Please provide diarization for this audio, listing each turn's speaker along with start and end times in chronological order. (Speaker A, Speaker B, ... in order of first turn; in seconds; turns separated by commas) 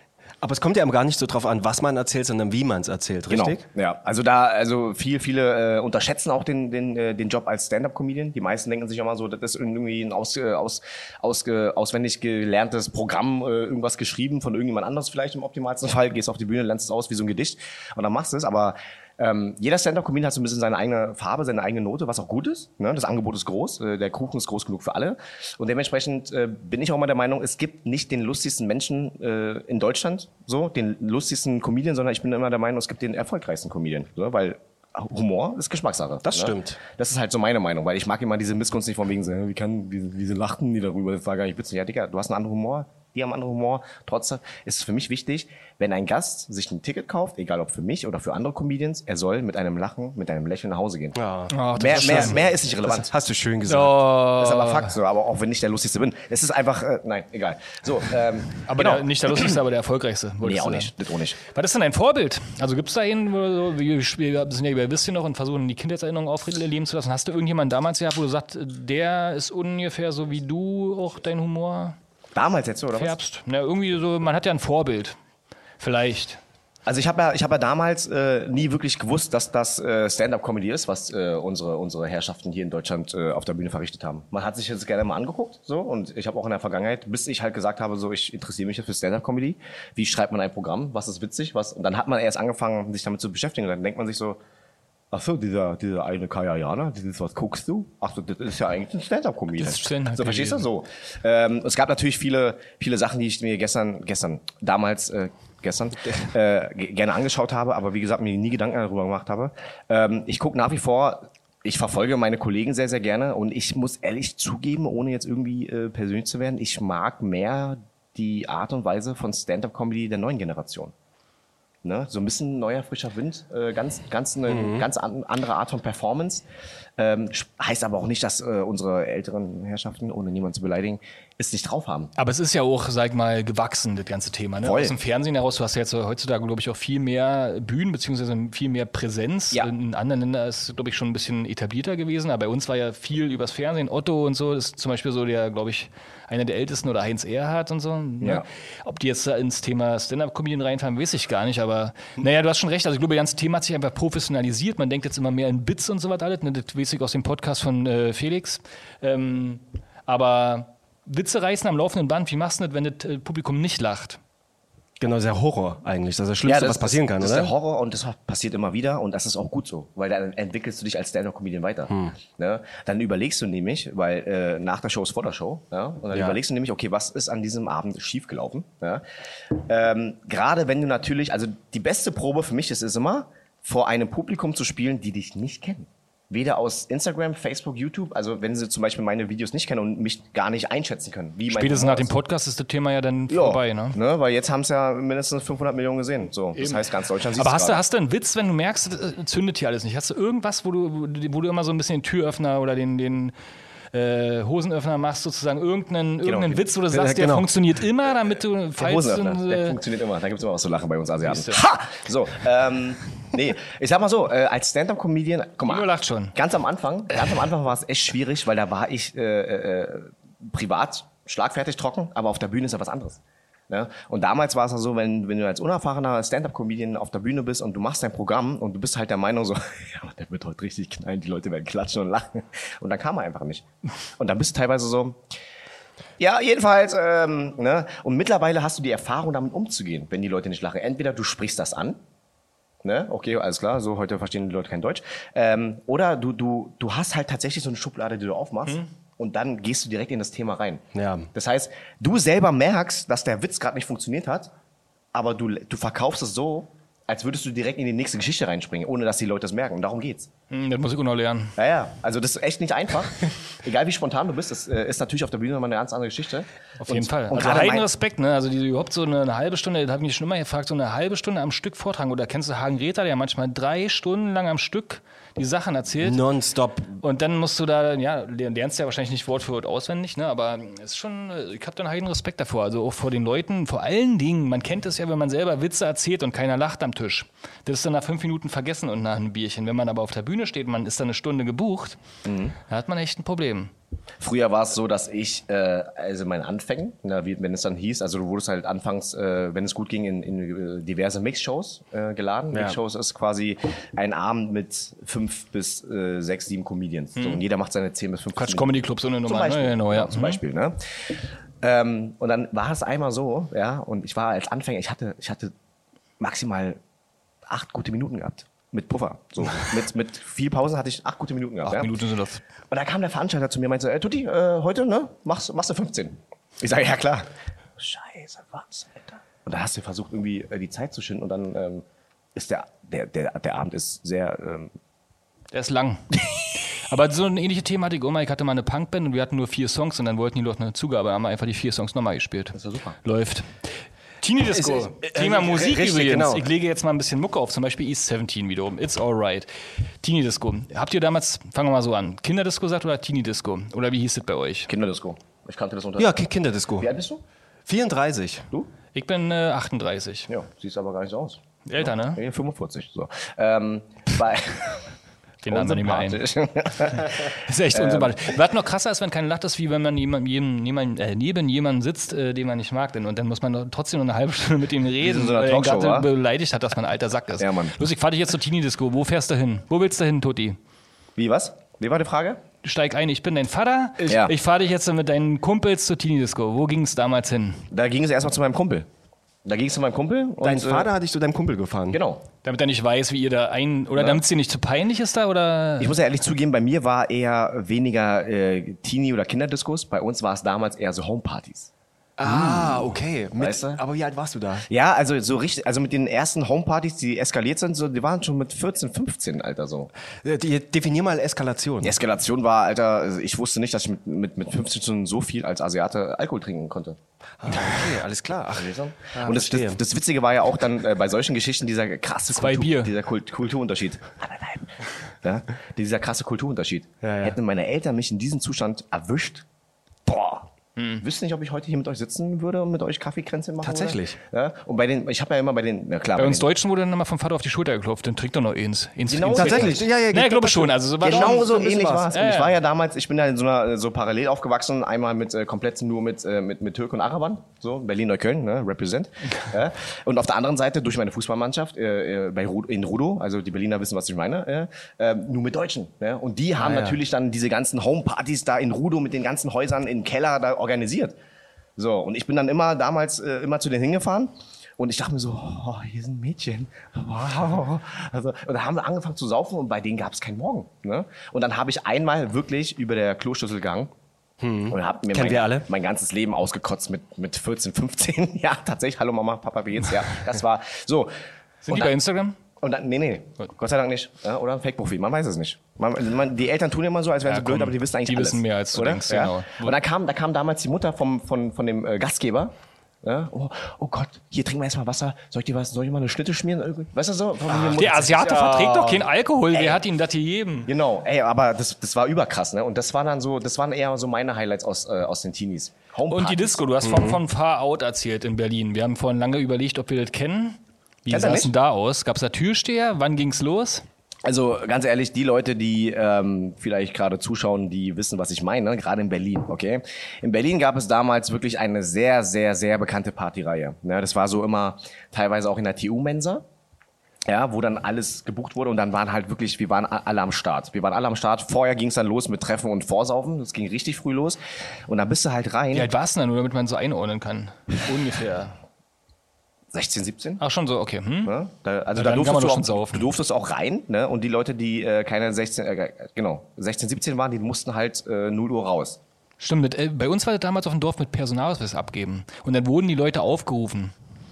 Speaker A: 0.4-3.6, Speaker B: 3.3-51.2, Speaker A: 36.2-36.8, Speaker A: 51.1-54.1, Speaker C: 51.5-52.4, Speaker B: 51.8-53.1, Speaker C: 53.7-55.0, Speaker B: 54.3-59.6, Speaker C: 58.7-72.0, Speaker B: 60.4-61.4, Speaker B: 72.3-73.2, Speaker C: 73.0-75.2, Speaker C: 75.8-76.4, Speaker B: 76.9-94.4, Speaker B: 95.1-120.9, Speaker C: 99.5-100.7, Speaker B: 121.8-126.4, Speaker A: 124.5-124.8, Speaker B: 127.0-132.1, Speaker C: 132.2-164.2, Speaker B: 134.6-134.9, Speaker A: 165.0-167.5, Speaker B: 166.4-192.1, Speaker A: 176.1-176.4, Speaker C: 191.5-194.0, Speaker B: 193.3-197.8, Speaker C: 196.6-203.3, Speaker C: 203.9-209.8, Speaker B: 206.2-206.6, Speaker A: 206.9-207.5, Speaker B: 208.8-233.7, Speaker C: 211.2-211.6, Speaker C: 215.7-216.3, Speaker B: 234.2-235.2, Speaker B: 236.2-242.0, Speaker B: 242.8-254.5, Speaker A: 250.9-251.3, Speaker B: 255.1-260.3, Speaker C: 260.5-261.6, Speaker B: 261.6-267.9, Speaker C: 266.8-276.2, Speaker A: 276.0-277.0, Speaker C: 277.0-292.0, Speaker B: 292.2-292.6, Speaker C: 292.6-293.7, Speaker B: 294.2-315.5, Speaker A: 302.5-302.8, Speaker C: 307.2-307.4, Speaker C: 308.4-310.4, Speaker B: 316.2-316.8, Speaker B: 317.5-321.9, Speaker C: 321.6-322.4, Speaker B: 322.7-331.8, Speaker B: 332.4-334.7, Speaker C: 335.5-343.7, Speaker B: 342.5-343.0, Speaker C: 344.2-349.5, Speaker A: 344.4-346.5, Speaker C: 350.0-354.7, Speaker B: 354.7-356.3, Speaker A: 356.0-356.9, Speaker B: 356.8-357.2, Speaker A: 357.7-358.5, Speaker C: 358.9-360.3, Speaker B: 360.3-364.9, Speaker C: 361.7-362.2, Speaker C: 365.4-366.2, Speaker B: 365.5-368.3, Speaker C: 366.9-380.6, Speaker B: 375.0-376.1, Speaker B: 377.4-377.8, Speaker B: 381.2-382.4, Speaker C: 382.6-387.7, Speaker B: 384.1-384.3, Speaker B: 387.7-388.9, Speaker B: 389.4-390.9, Speaker A: 390.4-392.0, Speaker B: 391.9-392.2, Speaker C: 392.4-395.9, Speaker B: 394.0-394.2, Speaker B: 395.8-401.7, Speaker A: 402.2-404.7, Speaker B: 402.2-403.8, Speaker B: 404.7-409.9, Speaker A: 410.2-412.0, Speaker B: 411.8-417.0, Speaker A: 417.4-419.8, Speaker B: 418.5-429.4, Speaker C: 422.3-422.9, Speaker A: 427.0-427.4, Speaker B: 430.1-430.5, Speaker C: 430.8-431.0, Speaker B: 431.0-436.5, Speaker A: 433.6-434.2, Speaker C: 436.2-442.6, Speaker B: 439.1-439.9, Speaker A: 439.3-442.1, Speaker B: 441.0-461.1, Speaker A: 456.6-457.0, Speaker B: 461.8-473.9, Speaker A: 474.4-475.7, Speaker B: 474.7-481.1, Speaker C: 481.6-482.4, Speaker B: 482.6-492.5, Speaker C: 487.3-489.8, Speaker B: 493.0-498.9, Speaker A: 497.5-499.0, Speaker C: 497.7-500.7, Speaker B: 499.5-499.8, Speaker B: 500.7-506.6, Speaker C: 506.1-513.9, Speaker A: 506.8-507.2, Speaker B: 511.1-511.5, Speaker B: 514.2-526.4, Speaker B: 527.3-535.9, Speaker C: 535.7-538.6, Speaker B: 539.7-540.4, Speaker C: 540.4-541.4, Speaker B: 541.2-549.0, Speaker C: 542.0-543.1, Speaker C: 549.4-553.9